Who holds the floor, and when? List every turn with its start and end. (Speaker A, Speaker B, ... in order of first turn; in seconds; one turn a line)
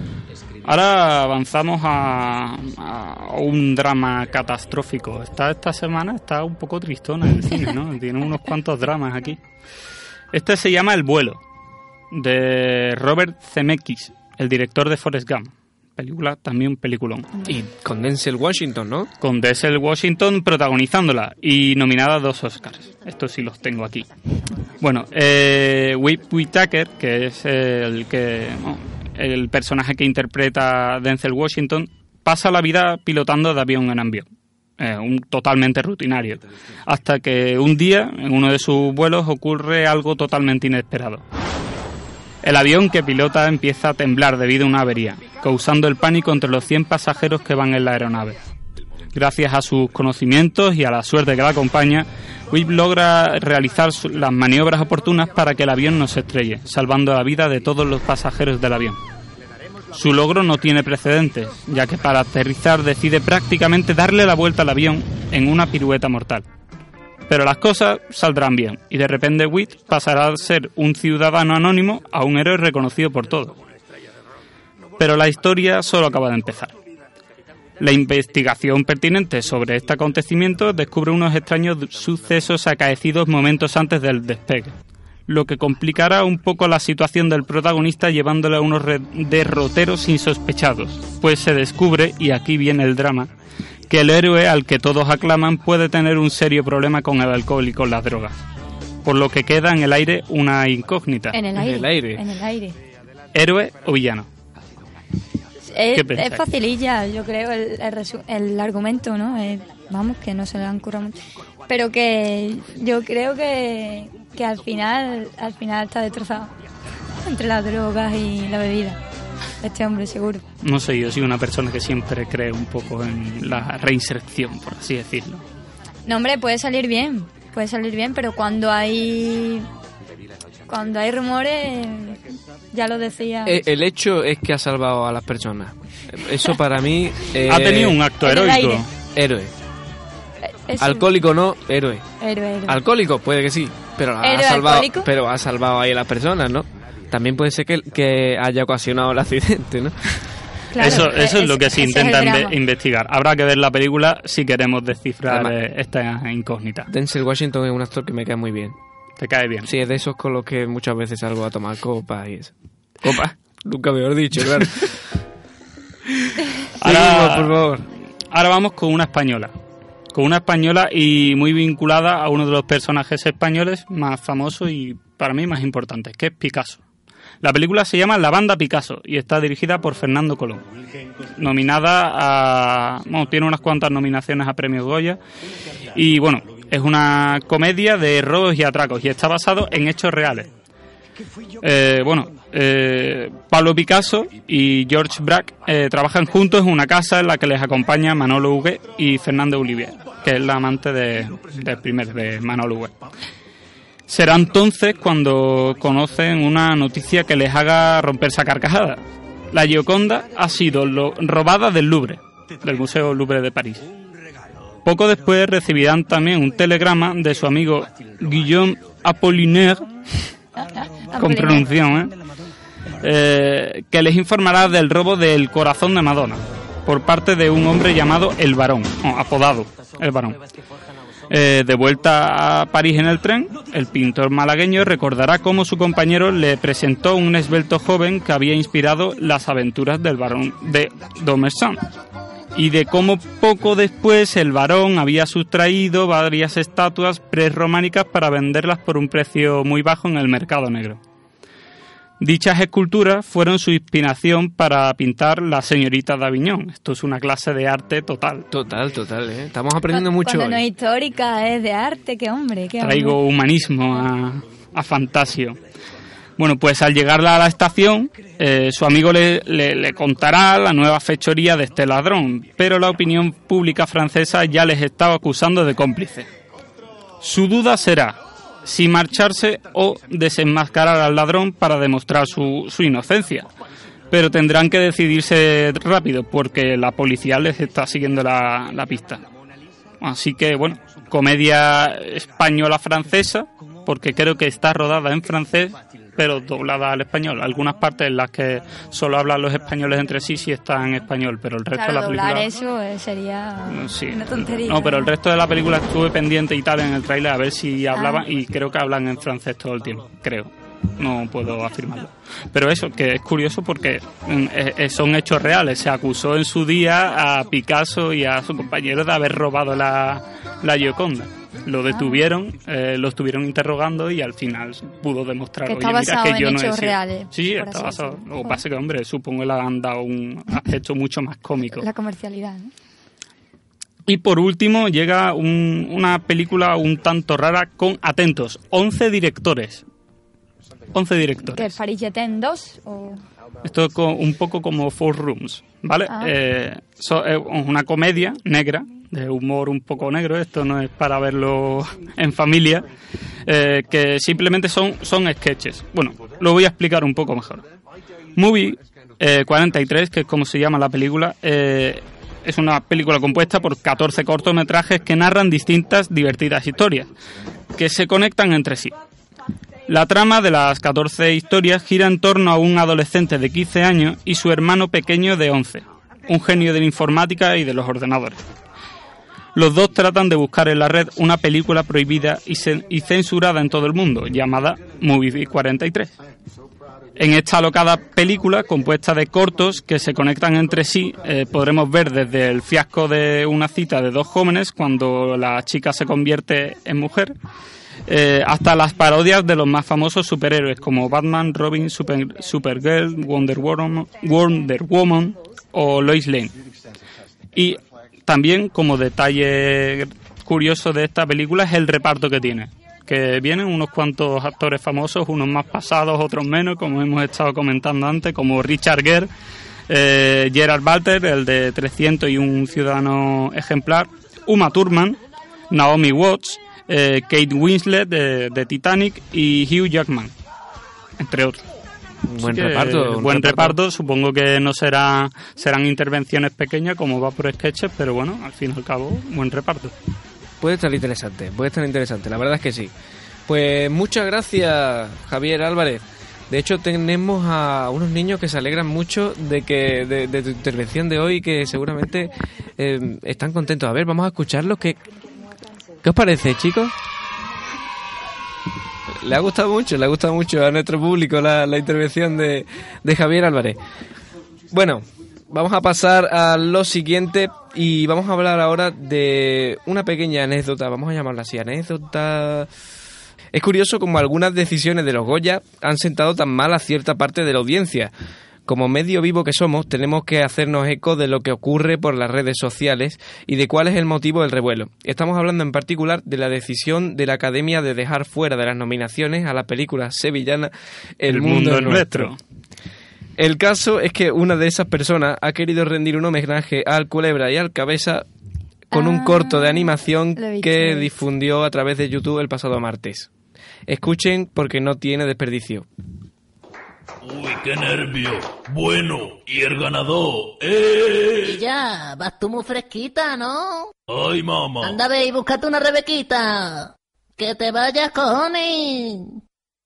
Speaker A: 0.6-9.4
Speaker A: 10.3-11.4
Speaker A: 12.1-17.4
Speaker B: 17.4-19.1
Speaker A: 19.2-24.1
Speaker A: 24.8-34.3
Speaker A: 34.8-41.2
Speaker A: 42.4-48.4
Speaker A: 49.1-59.0
Speaker A: 59.9-66.4
Speaker A: 67.3-73.6
Speaker A: 75.0-76.7
Speaker A: 77.8-84.8
Speaker A: 85.3-93.3
Speaker A: 93.9-98.4
Speaker A: 99.0-101.4
Speaker C: 101.3-102.8
Speaker B: 101.5-102.3
Speaker A: 103.3-104.3
Speaker C: 105.7-111.2
Speaker A: 105.9-106.5
Speaker C: 111.7-116.5
Speaker C: 117.2-119.0
Speaker C: 119.6-120.5
Speaker A: 120.6-125.4
Speaker C: 126.1-129.7
Speaker C: 130.7-132.2
Speaker C: 132.7-133.6
Speaker B: 133.4-138.0
Speaker A: 137.4-138.9
Speaker C: 138.2-138.9
Speaker B: 139.1-139.5
Speaker C: 140.4-141.1
Speaker B: 140.8-142.1
Speaker C: 142.2-142.8
Speaker B: 142.7-150.2
Speaker C: 144.2-145.1
Speaker C: 150.7-152.6
Speaker A: 150.8-156.9
Speaker B: 155.3-155.6
Speaker B: 156.9-158.8
Speaker A: 159.2-159.7
Speaker B: 159.6-165.0
Speaker A: 166.8-167.6
Speaker B: 166.8-167.9
Speaker A: 168.3-169.5
Speaker A: 170.1-176.8
Speaker A: 177.4-180.7
Speaker A: 181.2-185.2
Speaker A: 185.9-190.5
Speaker A: 191.6-203.0
Speaker A: 204.1-213.9
Speaker A: 214.8-220.3
Speaker C: 220.6-221.7
Speaker A: 221.2-222.1
Speaker A: 223.0-230.4
Speaker A: 231.3-241.8
Speaker A: 242.6-251.0
Speaker A: 252.2-258.5
Speaker B: 258.5-260.6
Speaker C: 259.9-263.2
Speaker A: 262.8-265.6
Speaker A: 266.4-276.3
Speaker A: 277.2-283.5
Speaker A: 284.1-289.2
Speaker A: 290.0-302.5
Speaker C: 301.7-305.1
Speaker A: 303.7-331.9
Speaker C: 307.9-308.2
Speaker C: 321.9-322.2
Speaker C: 325.7-328.6
Speaker C: 331.7-332.7
Speaker A: 334.1-339.8
Speaker A: 340.9-341.7
Speaker C: 341.4-343.2
Speaker A: 343.6-352.9
Speaker C: 346.1-346.4
Speaker A: 353.5-357.6
Speaker A: 358.4-367.1
Speaker A: 367.8-368.9
Speaker A: 369.9-378.4
Speaker A: 379.6-386.2
Speaker A: 387.2-397.4
Speaker A: 398.1-406.5
Speaker A: 407.6-419.3
Speaker A: 419.9-430.3
Speaker A: 431.2-431.6
Speaker B: 432.3-433.8
Speaker A: 432.4-439.9
Speaker B: 440.6-442.9
Speaker B: 443.5-455.0
Speaker B: 456.0-456.9
Speaker B: 459.1-463.8
Speaker B: 464.7-472.7
Speaker B: 473.5-478.1
Speaker B: 478.7-492.3
Speaker A: 491.3-492.4
Speaker B: 493.4-498.3
Speaker B: 498.9-503.3
Speaker C: 498.9-501.1
Speaker B: 503.9-505.9
Speaker D: 507.2-511.6
Speaker E: 511.4-513.9
Speaker D: 514.1-515.0
Speaker E: 514.8-519.4